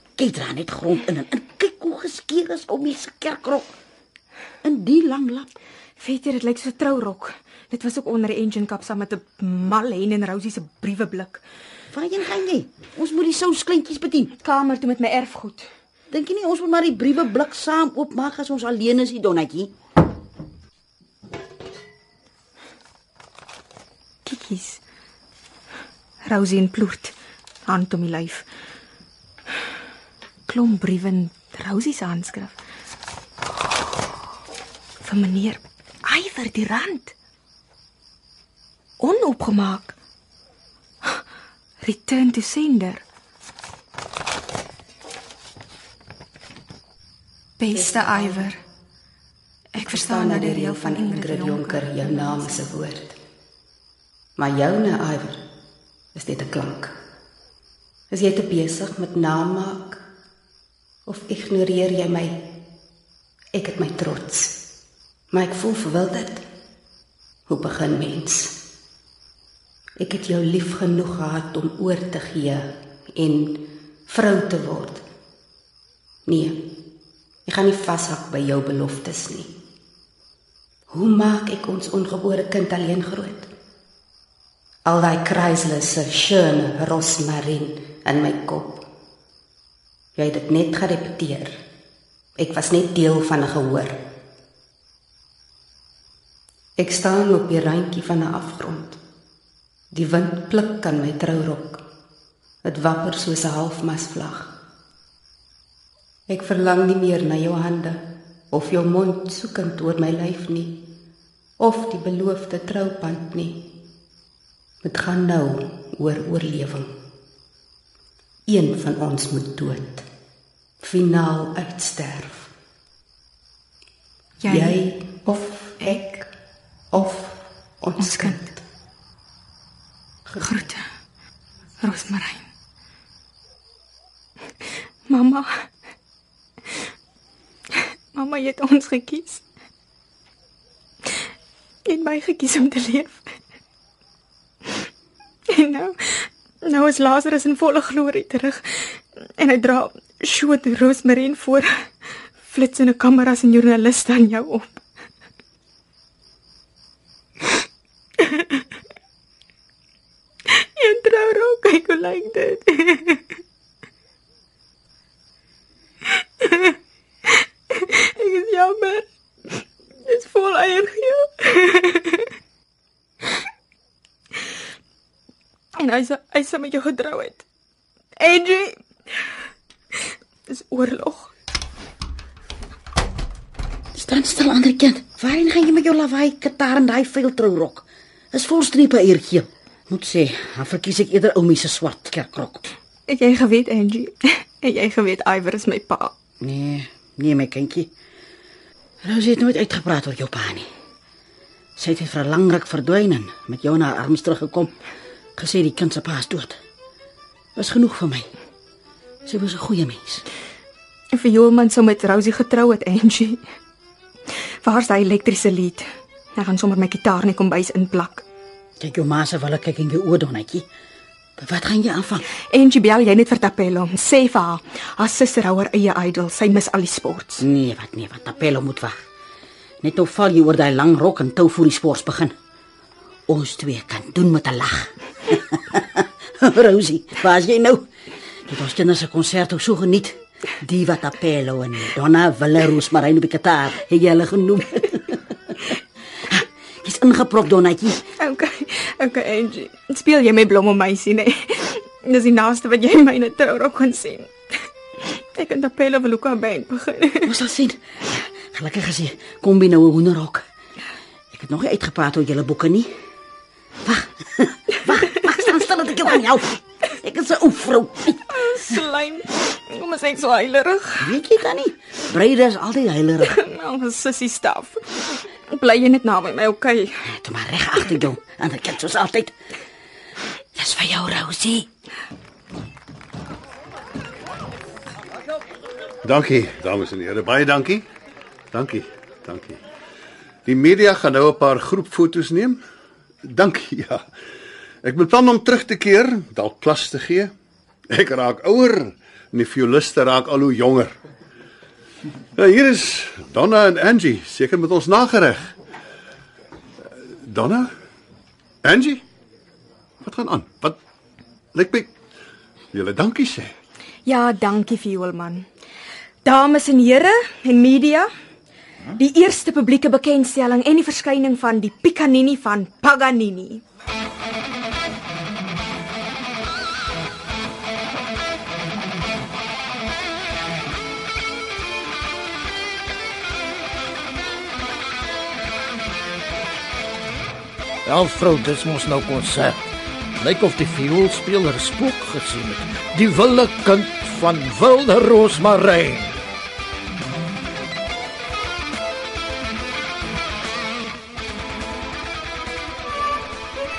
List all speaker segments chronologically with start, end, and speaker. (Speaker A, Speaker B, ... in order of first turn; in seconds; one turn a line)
Speaker A: 0.2-3.7
Speaker A: 4.6-5.5
Speaker B: 6.0-11.4
Speaker A: 11.9-14.3
Speaker B: 14.4-15.7
Speaker A: 16.1-19.7
Speaker B: 24.2-24.8
Speaker B: 26.2-27.1
Speaker B: 27.6-28.4
Speaker B: 30.5-32.6
Speaker B: 35.0-37.1
Speaker B: 39.0-40.0
Speaker B: 41.8-43.0
Speaker B: 47.6-48.6
Speaker B: 49.7-52.7
Speaker C: 49.7-53.2
Speaker C: 54.4-55.5
Speaker C: 56.1-57.0
Speaker C: 58.1-60.0
Speaker C: 61.0-62.6
Speaker C: 63.5-64.7
Speaker C: 65.3-66.4
Speaker C: 67.5-68.6
Speaker C: 70.0-75.0
Speaker C: 76.2-76.8
Speaker C: 77.5-79.6
Speaker C: 80.9-83.5
Speaker C: 84.8-88.8
Speaker C: 90.1-91.6
Speaker C: 92.4-94.0
Speaker C: 96.8-99.0
Speaker C: 99.9-101.8
Speaker C: 102.6-104.6
Speaker C: 106.3-110.9
Speaker C: 111.6-113.8
Speaker C: 114.8-117.0
Speaker C: 118.5-120.0
Speaker C: 120.8-122.5
Speaker B: 124.4-124.8
Speaker C: 124.4-126.3
Speaker B: 125.8-126.0
Speaker C: 126.9-128.6
Speaker B: 128.0-128.4
Speaker B: 130.4-130.8
Speaker B: 131.8-132.5
Speaker B: 135.1-135.7
Speaker B: 137.7-139.4
Speaker B: 141.8-143.3
Speaker B: 145.5-151.9
Speaker B: 152.4-154.8
Speaker B: 158.2-158.5
Speaker B: 160.5-163.2
Speaker B: 166.4-166.8
Speaker B: 167.3-172.3
Speaker B: 175.8-177.4
Speaker B: 178.2-179.3
Speaker B: 180.5-181.3
Speaker A: 183.9-192.7
Speaker B: 193.1-196.1
Speaker A: 196.4-197.9
Speaker A: 199.0-200.7
Speaker A: 201.8-204.7
Speaker A: 205.4-206.6
Speaker A: 207.6-208.3
Speaker A: 209.2-210.2
Speaker B: 211.1-213.4
Speaker B: 214.6-218.2
Speaker A: 218.8-220.7
Speaker A: 221.4-222.2
Speaker B: 222.5-227.4
Speaker A: 227.4-228.9
Speaker A: 229.8-232.3
Speaker A: 233.3-237.9
Speaker A: 238.4-248.0
Speaker B: 248.2-254.3
Speaker B: 255.2-257.3
Speaker A: 257.2-260.4
Speaker A: 261.3-262.9
Speaker A: 263.8-268.2
Speaker B: 268.3-271.1
Speaker A: 271.0-273.4
Speaker B: 273.3-277.0
Speaker A: 277.0-279.3
Speaker A: 280.6-281.7
Speaker D: 286.0-287.8
Speaker D: 288.5-289.6
Speaker D: 290.4-292.6
Speaker D: 293.2-294.1
Speaker D: 294.8-297.3
Speaker D: 297.9-301.0
Speaker D: 302.3-305.6
Speaker D: 306.9-307.7
Speaker D: 308.6-309.0
Speaker D: 310.0-310.8
Speaker D: 311.5-311.9
Speaker D: 312.7-313.5
Speaker B: 314.1-315.5
Speaker B: 316.2-318.1
Speaker B: 318.9-323.6
Speaker E: 337.9-339.6
Speaker E: 340.2-346.2